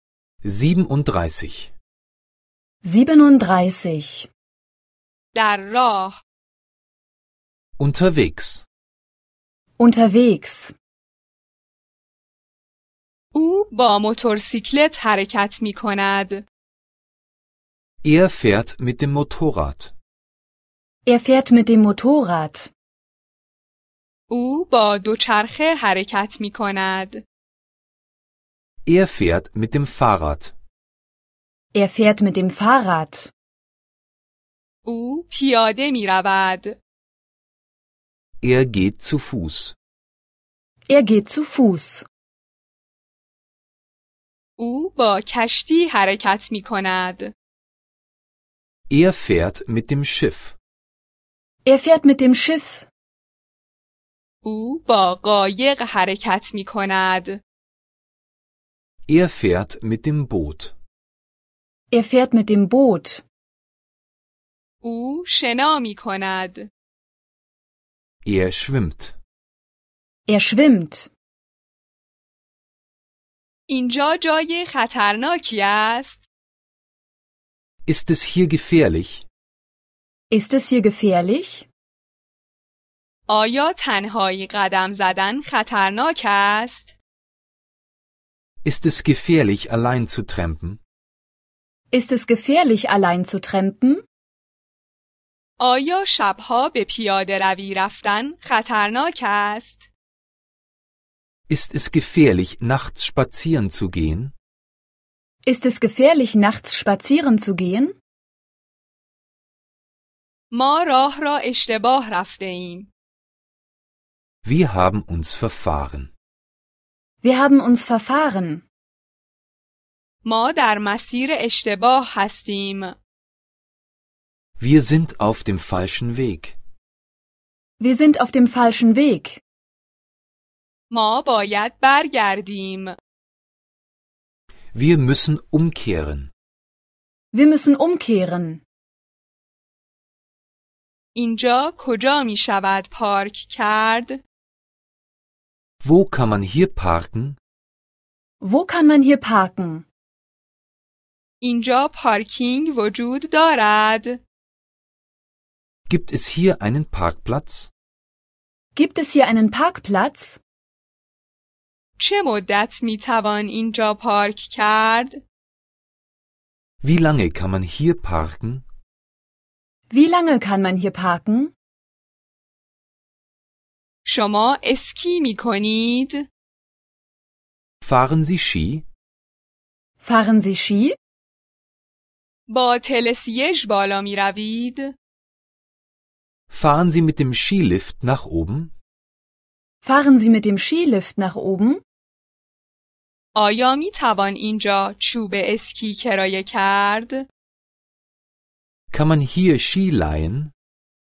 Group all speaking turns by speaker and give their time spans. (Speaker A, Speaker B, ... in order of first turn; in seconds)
Speaker A: 0.4-1.7, 7.8-8.6, 18.0-19.9, 28.9-30.5, 38.4-39.8, 48.9-50.5, 59.1-60.8, 68.2-69.2, 77.8-79.2, 88.6-90.8, 101.5-104.3, 114.4-116.1, 124.6-126.6, 134.7-136.3, 145.8-147.4, 155.9-157.7, 166.8-168.7, 177.8-178.8, 186.5-188.7, 198.9-200.5
Speaker B: 2.8-4.3, 9.8-10.7, 21.1-22.7, 31.7-33.3, 40.9-42.1, 51.6-52.9, 61.9-63.2, 70.3-71.1, 80.3-81.7, 91.9-94.0, 105.5-108.0, 117.2-118.6, 127.8-129.4, 137.3-138.6, 148.4-149.8, 158.7-160.4, 169.9-171.5, 180.0-180.9, 189.8-191.8
Speaker C: 5.3-6.2, 13.3-16.4, 24.3-27.2, 34.9-36.8, 44.6-47.3, 54.4-57.4, 64.8-66.7, 73.7-76.2, 83.3-87.0, 95.6-99.9, 110.5-112.9, 120.2-123.0, 130.9-132.9, 141.1-144.2, 151.4-154.2, 162.0-165.2, 174.1-176.3, 182.5-184.9, 193.3-197.3